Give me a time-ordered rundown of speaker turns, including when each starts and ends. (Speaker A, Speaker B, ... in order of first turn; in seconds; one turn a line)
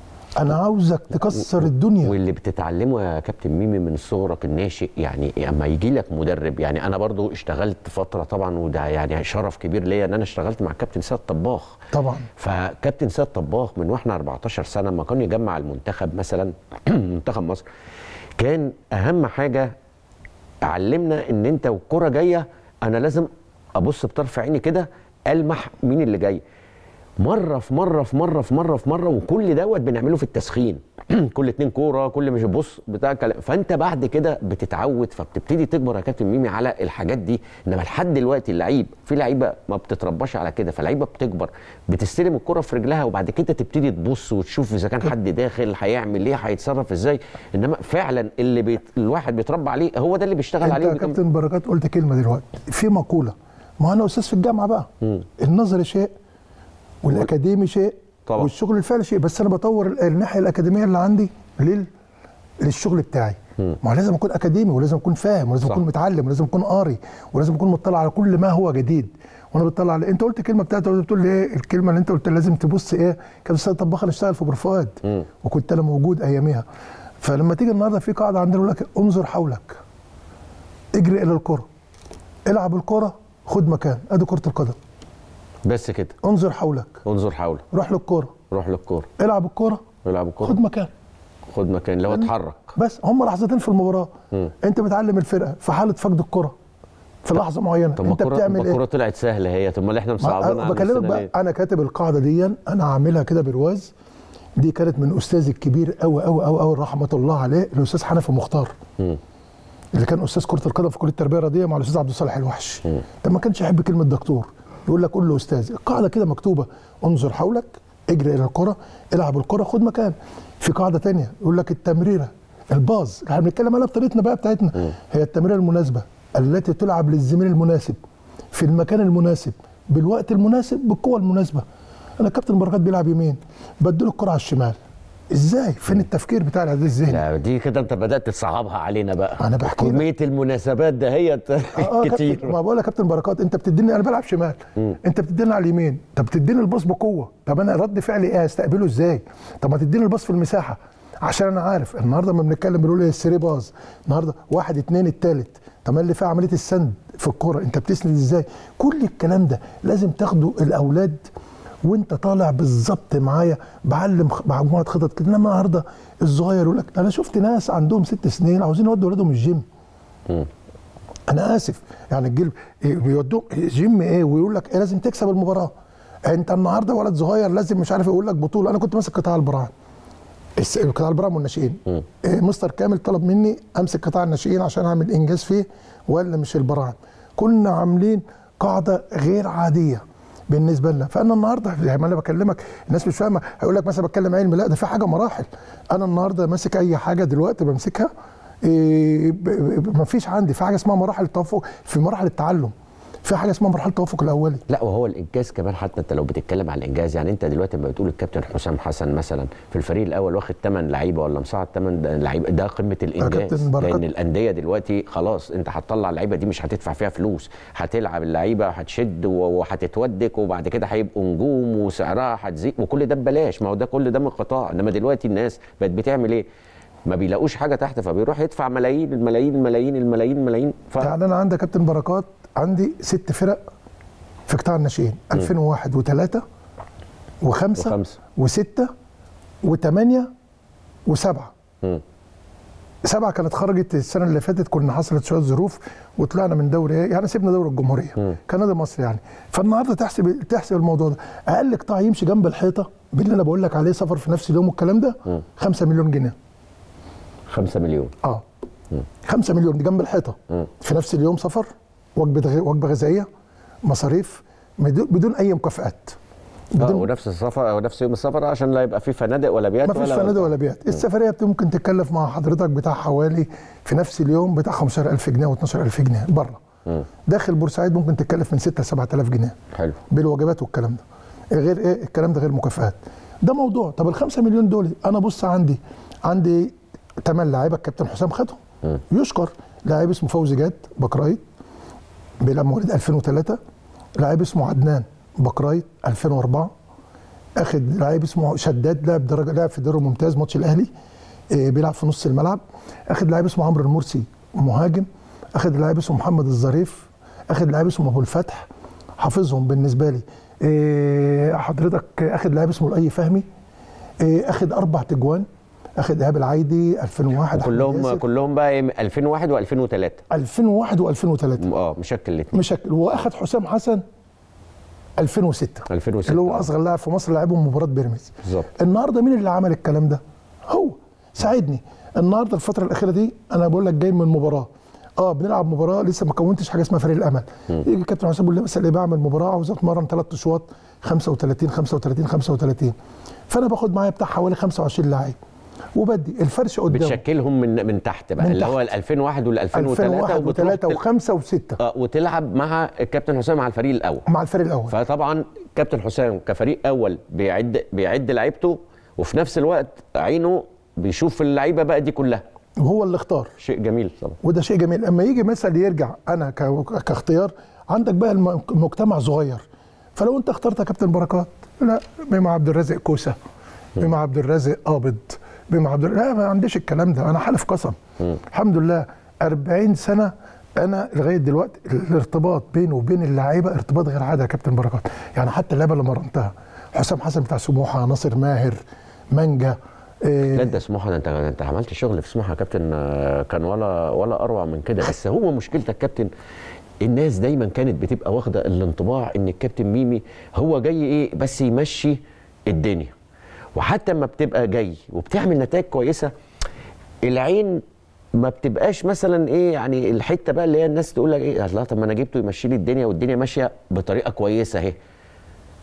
Speaker A: 0.3-2.1
Speaker B: 2.0-11.8
Speaker A: 11.9-12.3
Speaker B: 12.4-17.6
Speaker B: 18.4-19.7
Speaker B: 20.6-26.4
Speaker B: 27.2-51.2
Speaker A: 50.6-56.1
Speaker A: 57.0-61.9
Speaker A: 62.6-76.6
Speaker A: 77.2-79.8
Speaker A: 80.9-81.7
Speaker A: 82.4-84.8
Speaker B: 85.6-86.1
Speaker A: 86.2-87.0
Speaker B: 87.0-87.6
Speaker A: 87.7-88.3
Speaker B: 88.5-89.1
Speaker A: 89.2-89.8
Speaker B: 90.0-90.6
Speaker A: 90.4-90.9
Speaker B: 91.5-92.7
Speaker A: 92.1-96.5
Speaker A: 97.2-98.8
Speaker B: 98.0-101.3
Speaker A: 100.2-103.9
Speaker A: 104.6-108.7
Speaker A: 109.9-128.0
Speaker A: 128.5-131.6
Speaker A: 132.2-134.8
Speaker A: 135.3-137.2
Speaker B: 137.1-142.6
Speaker A: 139.4-140.0
Speaker A: 141.8-161.2
Speaker A: 161.8-169.6
Speaker A: 171.3-175.7
Speaker A: 176.2-179.7
Speaker A: 180.6-198.1
Speaker A: 198.6-202.7
Speaker A: 203.2-204.6
Speaker B: 204.7-226.4
Speaker A: 213.2-214.0
Speaker B: 227.1-231.1
Speaker A: 231.0-233.6
Speaker A: 234.5-236.4
Speaker A: 237.4-238.9
Speaker B: 237.8-238.2
Speaker A: 239.6-240.3
Speaker A: 241.1-241.5
Speaker A: 243.0-256.3
Speaker B: 257.5-258.1
Speaker A: 259.2-263.3
Speaker A: 263.8-266.1
Speaker A: 266.8-267.1
Speaker B: 266.8-270.5
Speaker A: 269.8-276.6
Speaker A: 277.2-279.5
Speaker B: 279.7-280.0
Speaker A: 280.1-281.0
Speaker A: 281.5-288.6
Speaker A: 289.1-291.4
Speaker A: 292.4-293.6
Speaker A: 294.2-296.7
Speaker A: 297.6-300.9
Speaker A: 301.5-308.7
Speaker A: 309.2-313.4
Speaker A: 314.2-315.4
Speaker A: 316.0-318.2
Speaker B: 317.5-320.2
Speaker A: 320.3-321.6
Speaker B: 321.6-322.6
Speaker A: 322.5-324.0
Speaker A: 325.2-342.9
Speaker B: 325.9-326.7
Speaker A: 343.5-345.4
Speaker A: 345.9-347.2
Speaker B: 346.9-351.0
Speaker A: 348.4-348.8
Speaker A: 349.7-351.8
Speaker B: 351.8-354.2
Speaker A: 354.3-354.9
Speaker B: 354.9-362.4
Speaker A: 362.8-363.5
Speaker B: 363.6-364.4
Speaker A: 364.4-369.6
Speaker A: 370.1-373.3
Speaker A: 374.0-388.8
Speaker A: 389.3-390.7
Speaker B: 390.5-396.3
Speaker B: 397.0-403.1
Speaker B: 403.7-406.3
Speaker B: 407.2-407.8
Speaker B: 408.3-414.9